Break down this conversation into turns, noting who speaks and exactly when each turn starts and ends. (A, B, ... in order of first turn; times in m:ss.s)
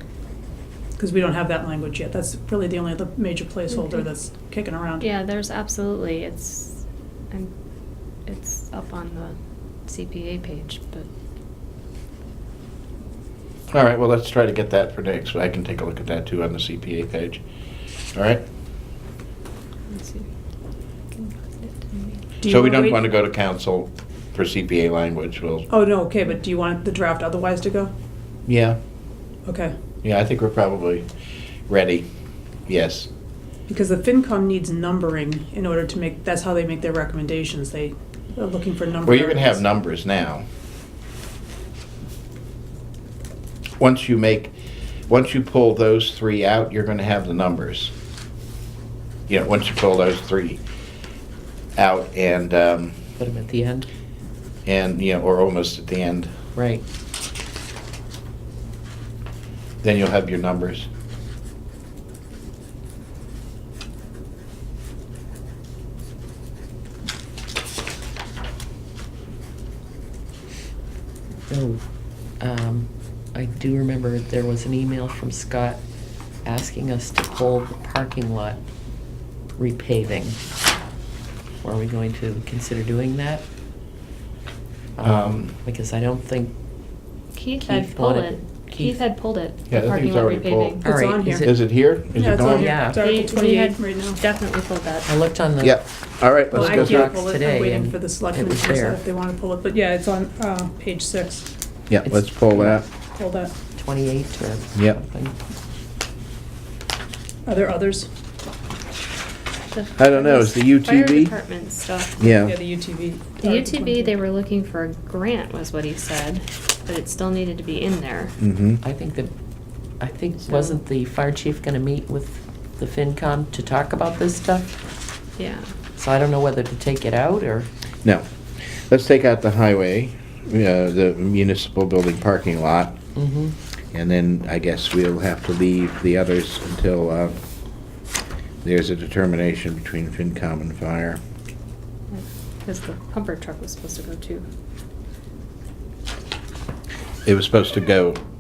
0:01.0-0:05.1 A
0:03.7-0:04.0 B
0:05.0-0:07.5 B
0:08.2-0:11.1 B
0:13.7-0:17.4 C
0:18.1-0:18.4 C
0:19.9-0:20.2 B
0:21.2-0:22.2 B
0:22.4-0:23.1 A
0:22.4-0:25.7 C
0:25.7-0:27.9 A
0:28.4-0:28.8 C
0:29.4-0:29.7 A
0:30.0-0:31.1 C
0:31.7-0:32.1 C
0:32.7-0:33.1 C
0:33.7-0:39.6 A
0:39.0-0:40.4 C
0:43.8-0:44.5 C
0:45.1-0:47.9 C
0:49.3-0:50.6 C
0:51.8-0:53.0 C
0:53.2-0:53.9 D
0:54.6-0:56.3 C
0:56.5-0:56.8 D
0:59.8-1:00.9 C
1:11.5-1:11.8 D
1:12.4-1:15.8 D
1:16.4-1:18.6 D
1:19.6-1:20.4 D
1:21.6-1:23.4 D
1:25.0-1:26.5 D
1:25.0-1:25.5 C
1:27.3-1:30.8 B
1:27.6-1:29.0 D
1:29.7-1:30.8 C
1:30.8-1:31.5 A
1:30.8-1:31.6 D
1:31.4-1:32.8 C
1:32.2-1:34.2 A
1:32.4-1:33.0 D
1:33.0-1:35.1 B
1:35.1-1:35.8 D
1:35.6-1:37.1 C
1:36.5-1:39.0 D
1:36.5-1:41.5 A
1:41.9-1:42.8 C
1:42.0-1:42.8 D
1:43.2-1:43.5 A
1:43.8-1:45.3 D
1:44.8-1:45.0 C
1:47.4-1:48.1 A
1:49.7-1:52.3 B
1:50.0-1:51.3 C
1:52.2-1:52.6 C
1:52.4-1:54.2 A
1:53.4-1:58.3 B
1:58.4-1:58.8 C
1:58.8-1:59.3 D
2:00.0-2:04.8 D
2:00.4-2:00.8 B
2:05.4-2:05.7 B
2:06.0-2:07.7 D
2:08.9-2:13.0 C
2:13.2-2:13.6 D
2:13.9-2:17.4 C
2:18.6-2:21.2 C
2:22.1-2:24.4 B
2:27.3-2:28.2 C